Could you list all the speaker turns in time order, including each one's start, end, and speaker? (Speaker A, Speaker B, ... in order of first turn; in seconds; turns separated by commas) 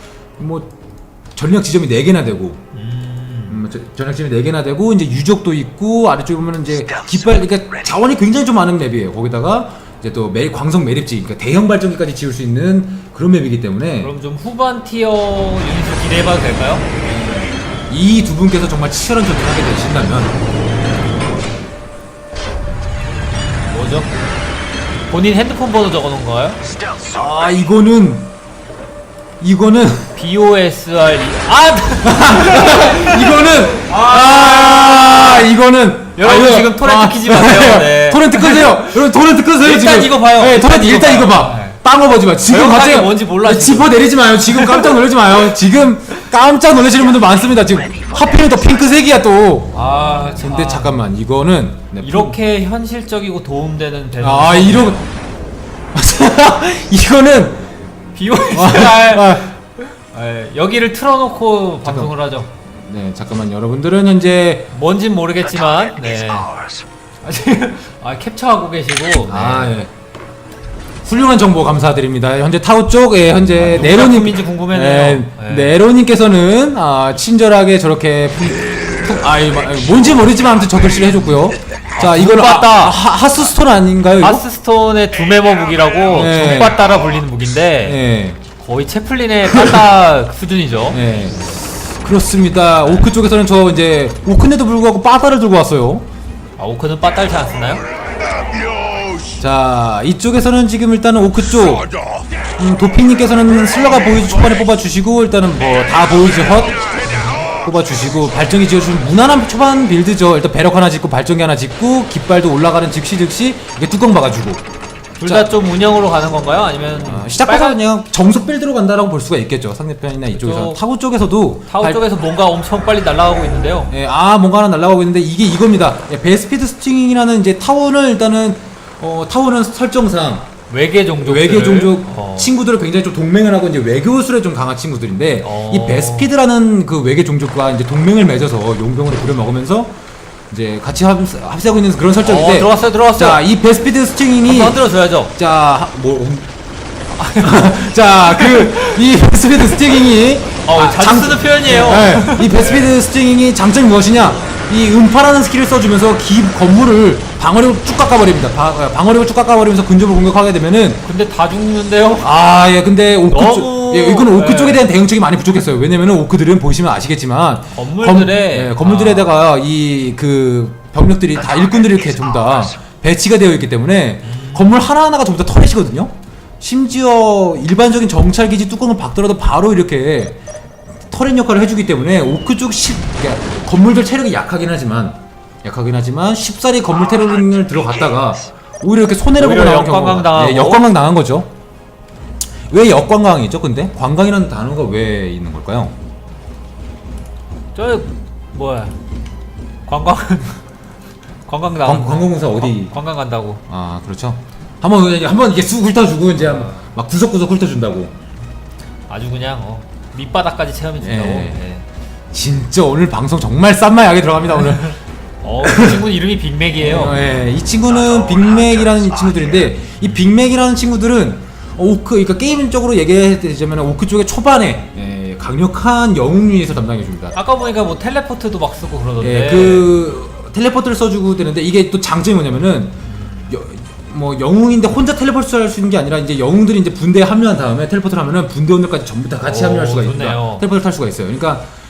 Speaker A: 0.4-0.7, Speaker A: 1.4-2.6, Speaker B: 2.7-3.6, Speaker A: 3.5-14.1, Speaker B: 14.0-16.9, Speaker A: 17.1-20.4, Speaker B: 23.7-24.1, Speaker B: 25.1-26.6, Speaker A: 27.0-28.3, Speaker A: 29.4-30.1, Speaker B: 30.1-35.5, Speaker A: 32.0-52.4, Speaker B: 36.1-39.0, Speaker B: 39.6-41.8, Speaker B: 42.5-45.0, Speaker B: 49.7-51.0, Speaker B: 52.0-55.1, Speaker A: 54.2-55.1, Speaker A: 55.9-57.6, Speaker B: 58.1-62.5, Speaker A: 58.5-59.5, Speaker A: 61.8-62.1, Speaker A: 62.7-64.7, Speaker B: 64.7-66.5, Speaker B: 67.2-69.8, Speaker A: 69.2-69.9, Speaker A: 71.0-84.5, Speaker B: 73.6-75.8, Speaker B: 82.0-83.0, Speaker B: 84.2-88.0, Speaker A: 86.1-86.8, Speaker A: 87.8-88.4, Speaker B: 88.6-91.0, Speaker A: 90.9-96.1, Speaker B: 96.6-97.8, Speaker A: 99.4-101.9, Speaker A: 102.6-114.6, Speaker B: 107.1-107.4, Speaker B: 115.2-117.8, Speaker A: 115.2-115.5, Speaker A: 117.0-122.0, Speaker B: 120.3-120.8, Speaker B: 121.7-123.9, Speaker A: 123.9-130.5, Speaker B: 130.7-132.5, Speaker A: 131.2-139.9, Speaker B: 135.4-136.3, Speaker A: 140.5-146.5, Speaker B: 142.2-143.4, Speaker B: 144.4-145.3, Speaker B: 147.2-149.0, Speaker A: 147.4-161.0, Speaker B: 149.7-150.0, Speaker B: 150.7-152.9, Speaker B: 161.1-162.3, Speaker A: 162.2-180.4, Speaker B: 163.3-164.9, Speaker B: 167.7-169.3, Speaker B: 174.3-174.9, Speaker A: 181.1-191.5, Speaker B: 189.4-190.9, Speaker A: 192.7-195.9, Speaker B: 197.8-198.9, Speaker B: 199.9-200.6, Speaker B: 201.5-203.6, Speaker A: 201.8-202.9, Speaker A: 203.7-208.1, Speaker B: 209.1-211.8, Speaker A: 211.0-211.6, Speaker A: 212.3-215.0, Speaker B: 215.4-217.2, Speaker A: 215.6-216.1, Speaker A: 216.8-227.4, Speaker B: 227.3-230.0, Speaker A: 229.2-241.7, Speaker B: 233.2-233.5, Speaker B: 239.4-240.6